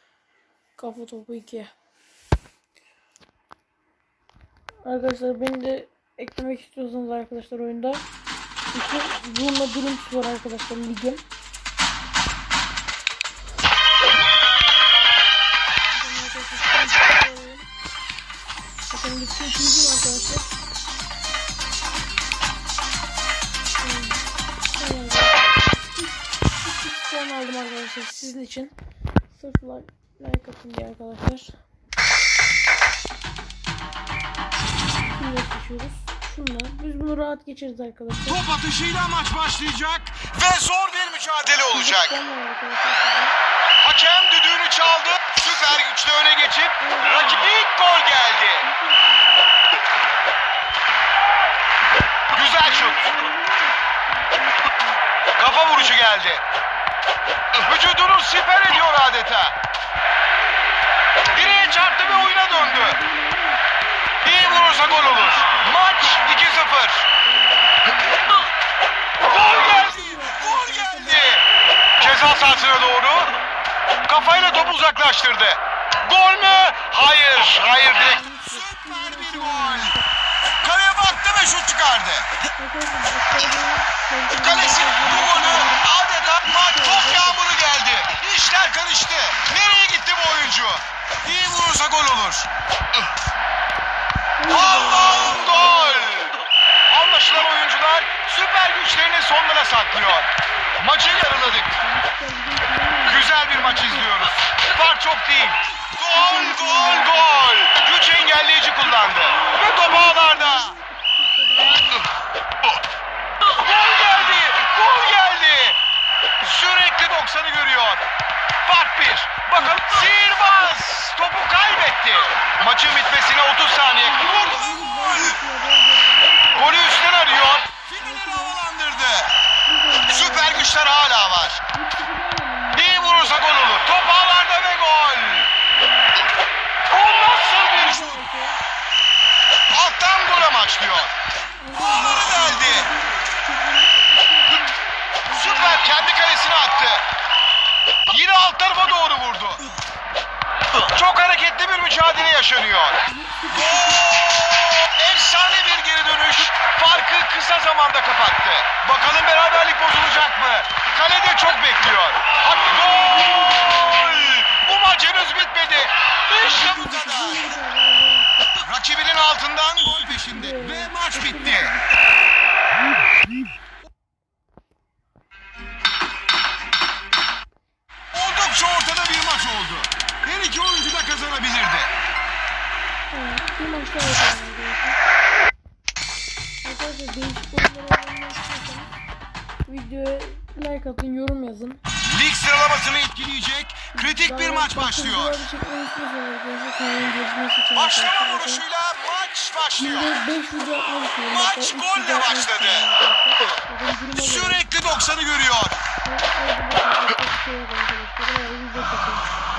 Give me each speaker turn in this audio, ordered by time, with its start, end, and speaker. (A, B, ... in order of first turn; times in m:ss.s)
0:00.8-0:01.7 A
0:04.8-0:08.0 A
0:08.7-0:11.2 A
0:15.9-0:17.7 A
0:18.9-0:20.5 A
0:23.8-0:24.2 A
0:24.8-0:28.7 A
0:29.3-0:31.6 A
0:35.0-0:38.4 A
0:38.3-0:42.2 B
0:41.7-0:43.3 A
0:43.8-0:48.7 B
0:46.8-0:47.5 A
0:48.6-0:49.5 A
0:52.3-0:53.2 B
0:52.6-0:55.0 A
0:55.4-0:56.4 B
0:57.6-0:59.5 B
1:01.3-1:03.0 B
1:01.3-1:03.6 A
1:04.2-1:07.1 B
1:04.3-1:06.6 A
1:07.2-1:08.5 A
1:09.2-1:11.4 B
1:09.3-1:11.4 A
1:12.0-1:13.3 B
1:12.0-1:14.8 A
1:14.1-1:19.9 B
1:16.1-1:16.6 A
1:17.8-1:20.0 A
1:20.6-1:22.3 B
1:22.6-1:25.9 A
1:24.4-1:32.5 B
1:26.4-1:27.4 A
1:34.4-1:36.1 A
1:34.5-1:36.4 B
1:36.9-1:41.7 B
1:41.4-1:44.3 A
1:43.0-1:50.7 B
1:46.1-1:47.4 A
1:49.1-1:52.1 A
1:53.5-1:55.8 B
1:56.4-1:58.0 B
1:58.6-2:05.4 B
2:04.0-2:07.0 A
2:06.5-2:09.3 B
2:08.0-2:08.6 A
2:09.6-2:10.7 A
2:10.1-2:11.6 B
2:11.7-2:13.5 A
2:12.8-2:15.5 B
2:15.0-2:16.2 A
2:16.9-2:18.2 B
2:17.7-2:18.6 A
2:19.7-2:21.1 B
2:21.6-2:26.1 A
2:21.7-2:22.9 B
2:25.3-2:27.0 B
2:28.1-2:29.6 B
2:30.8-2:47.4 B
2:33.0-2:34.0 A
2:42.5-2:44.4 A
2:46.4-2:48.6 A
2:48.6-2:51.7 B
2:50.2-2:51.9 A
2:58.1-3:01.9 B
3:03.1-3:05.0 A
3:06.6-3:08.9 A
3:09.6-3:11.8 A
3:12.0-3:15.4 B
3:13.9-3:18.6 A
3:17.7-3:20.1 B
3:19.8-3:24.6 A
3:21.3-3:22.9 B
3:24.1-3:25.8 B
3:26.0-3:29.3 A